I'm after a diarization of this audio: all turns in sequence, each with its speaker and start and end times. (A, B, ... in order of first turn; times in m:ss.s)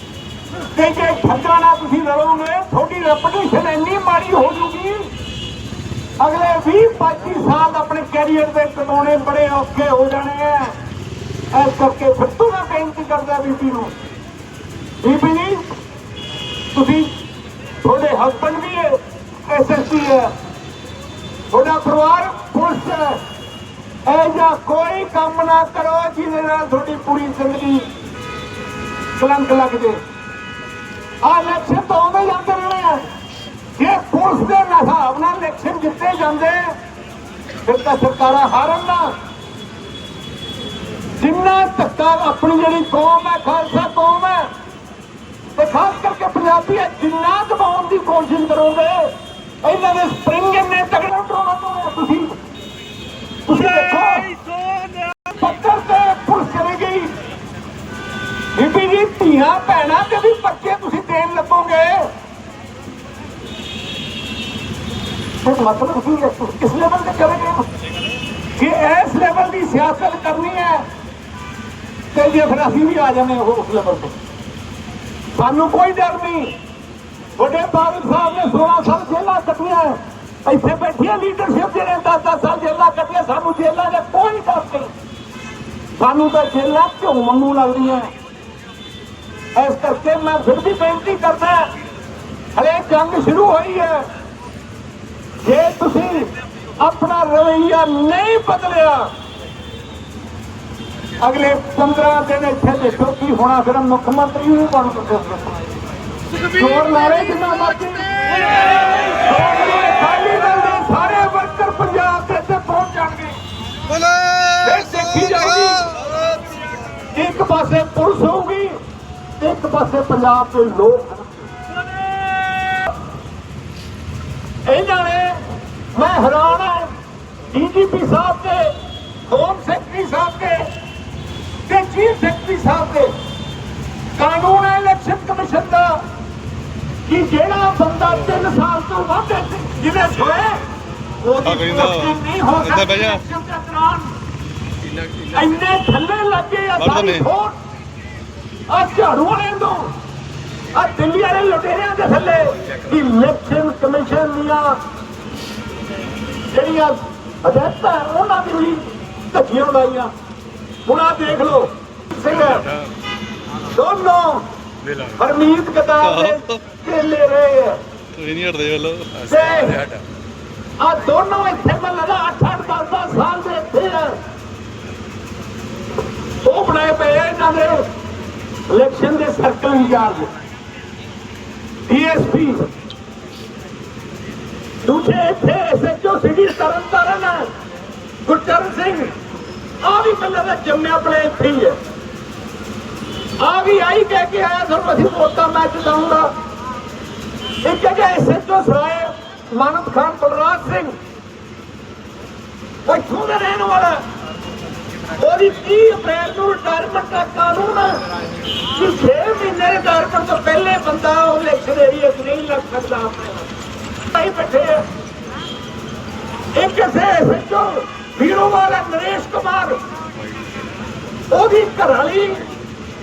0:00.5-0:05.1 A
0:06.2-0:10.8 A
0:11.5-0:13.9 A
0:15.0-0:15.8 A
0:16.7-0:17.1 A
0:17.8-0:20.3 A
0:21.5-0:23.2 A
0:24.0-0:27.9 A
0:29.2-0:30.0 A
0:31.2-0:33.1 A
0:33.8-0:36.8 A
0:37.6-0:39.2 A
0:41.2-0:44.5 A
0:45.5-0:52.4 A
0:53.5-0:54.4 A
0:55.2-0:57.2 A
0:58.5-1:02.1 A
1:05.4-1:07.7 A
1:08.6-1:10.9 A
1:12.1-1:14.2 A
1:15.3-1:16.6 A
1:17.4-1:24.9 A
1:26.0-1:28.1 A
1:29.5-1:31.7 A
1:32.5-1:34.1 A
1:35.4-1:39.1 A
1:41.2-1:45.7 A
1:46.4-1:53.4 A
1:54.2-1:54.6 B
1:54.6-1:55.9 A
1:57.1-1:58.8 A
1:59.4-2:01.3 A
2:02.0-2:02.9 A
2:04.6-2:06.9 A
2:07.5-2:08.7 A
2:09.3-2:10.7 A
2:11.7-2:13.1 A
2:14.1-2:16.0 A
2:17.0-2:20.7 A
2:21.2-2:24.1 A
2:21.4-2:23.2 B
2:25.3-2:27.6 A
2:26.8-2:27.3 B
2:28.7-2:30.0 A
2:30.7-2:34.8 A
2:36.5-2:40.1 A
2:40.8-2:42.7 A
2:43.6-2:44.5 A
2:45.1-2:47.8 A
2:46.0-2:46.6 B
2:48.2-2:49.5 B
2:49.3-2:49.8 A
2:50.8-2:54.2 A
2:56.4-2:57.9 A
2:58.7-3:00.3 A
3:01.8-3:02.7 A
3:04.8-3:07.5 A
3:08.2-3:09.2 A
3:09.8-3:11.8 A
3:13.4-3:16.3 A
3:17.6-3:21.0 A
3:22.8-3:24.0 A
3:25.1-3:28.0 A
3:28.7-3:33.5 A
3:34.1-3:34.9 A
3:36.5-3:39.8 A
3:41.3-3:42.5 A